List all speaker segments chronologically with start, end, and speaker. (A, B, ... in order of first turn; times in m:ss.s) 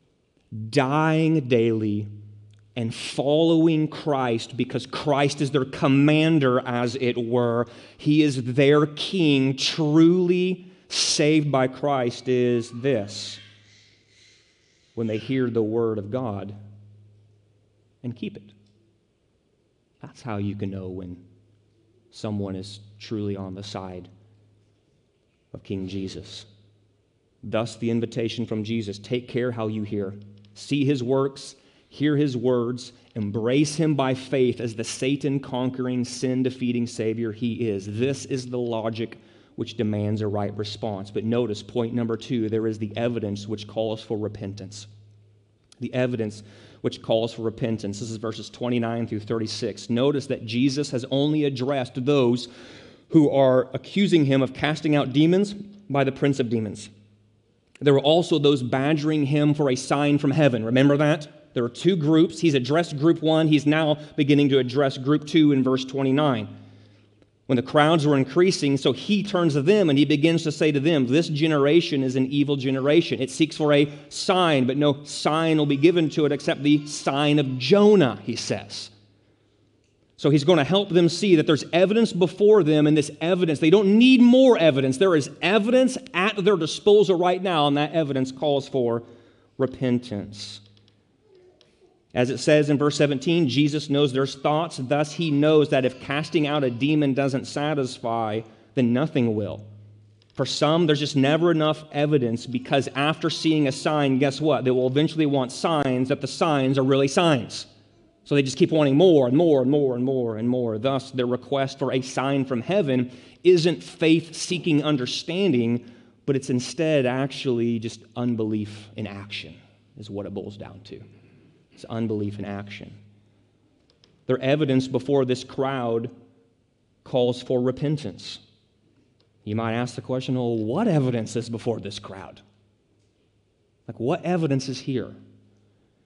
0:00.5-0:02.1 A
0:02.8-0:13.4 A
0:15.0-0:16.6 A
0:18.0-0:18.5 A
0:20.0-0:21.2 A
0:22.1-0:24.1 A
0:25.5-0:26.5 A
0:27.4-0:44.9 A
0:45.8-0:52.5 A
0:53.1-0:56.9 A
0:57.8-1:06.5 A
1:07.5-1:18.9 A
1:20.2-1:29.0 A
1:29.6-1:30.6 A
1:32.1-1:39.7 A
1:40.4-1:47.7 A
1:48.3-2:01.0 A
2:01.8-2:03.0 A
2:04.3-2:06.1 A
2:07.0-2:08.4 A
2:09.4-2:12.4 A
2:13.9-2:15.2 A